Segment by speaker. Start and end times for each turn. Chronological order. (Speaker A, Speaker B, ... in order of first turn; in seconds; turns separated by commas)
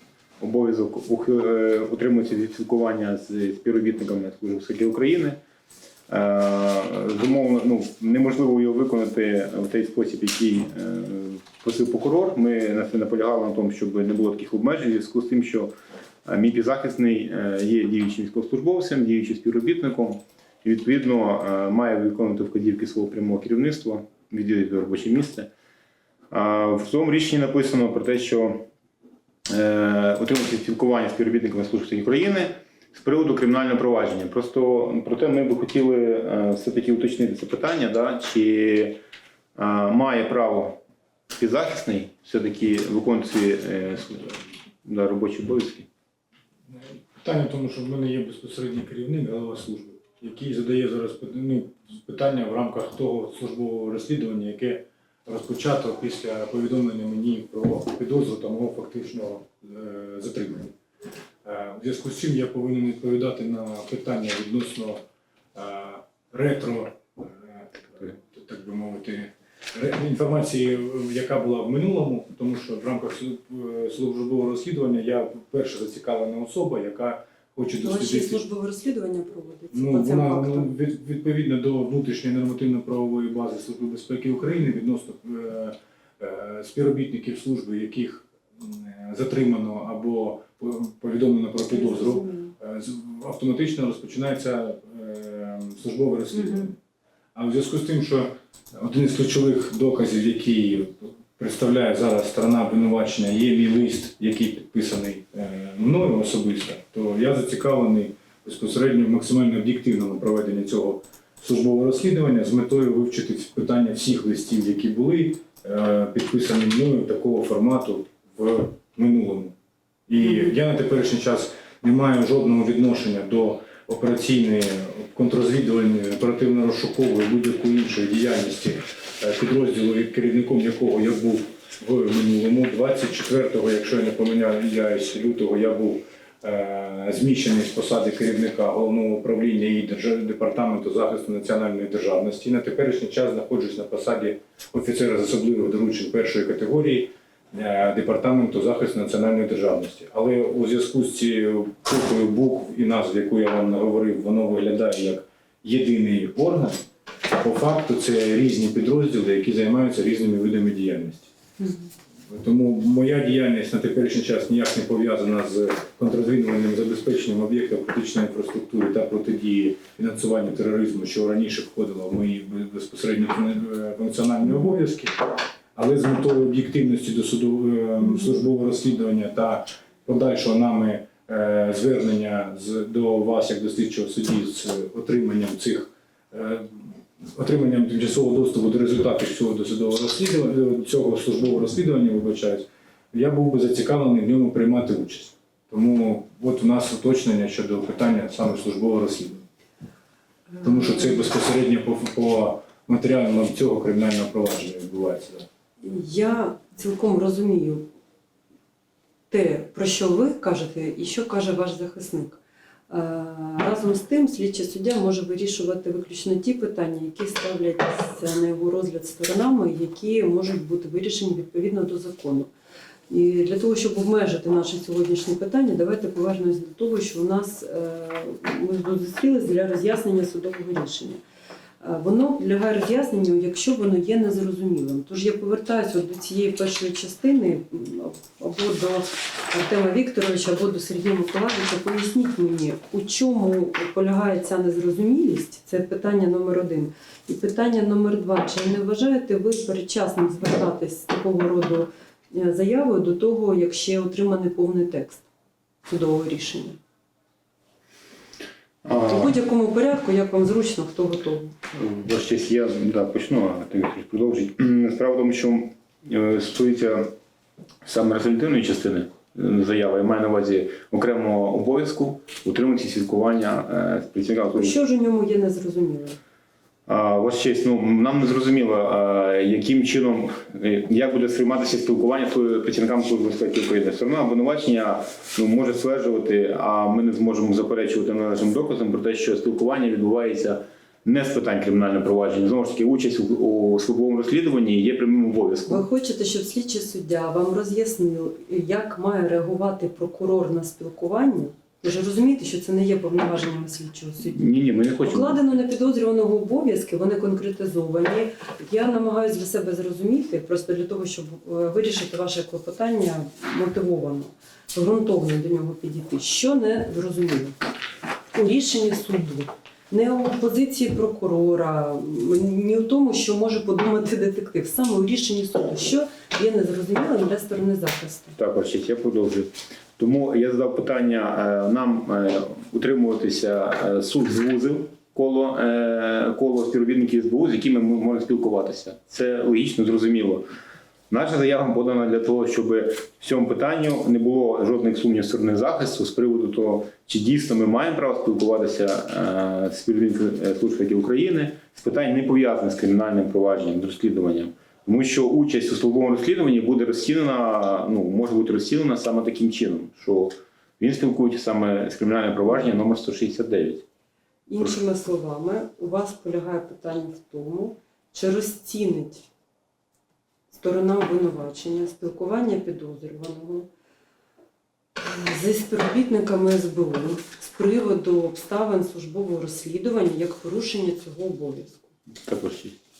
Speaker A: 0.4-5.4, Speaker A: 6.1-15.7, Speaker A: 16.2-25.5, Speaker A: 26.3-28.7, Speaker A: 29.5-39.0, Speaker A: 39.5-40.8, Speaker A: 41.4-45.9, Speaker B: 46.7-60.7, Speaker B: 61.4-65.0, Speaker B: 65.5-78.4, Speaker C: 77.8-80.7, Speaker B: 79.7-96.8, Speaker C: 91.7-92.5, Speaker C: 96.3-96.7, Speaker B: 97.3-119.5, Speaker B: 120.1-156.8, Speaker C: 120.2-120.5, Speaker B: 157.4-161.3, Speaker C: 161.6-161.9, Speaker B: 162.3-175.2, Speaker B: 175.8-199.4, Speaker C: 200.6-200.9, Speaker B: 200.6-205.5, Speaker C: 205.8-207.9, Speaker C: 209.3-222.5, Speaker C: 223.1-231.2, Speaker C: 231.8-255.2, Speaker C: 255.8-256.8, Speaker A: 258.8-259.4, Speaker C: 259.1-261.5, Speaker A: 261.7-267.1, Speaker A: 267.8-274.8, Speaker C: 274.5-276.2, Speaker A: 276.9-295.8, Speaker C: 295.7-304.4, Speaker A: 304.2-305.5, Speaker C: 305.0-317.6, Speaker C: 318.3-328.3, Speaker A: 328.4-340.4, Speaker A: 341.1-363.8, Speaker C: 364.5-369.3, Speaker C: 370.5-373.7, Speaker C: 375.0-381.9, Speaker A: 382.2-382.8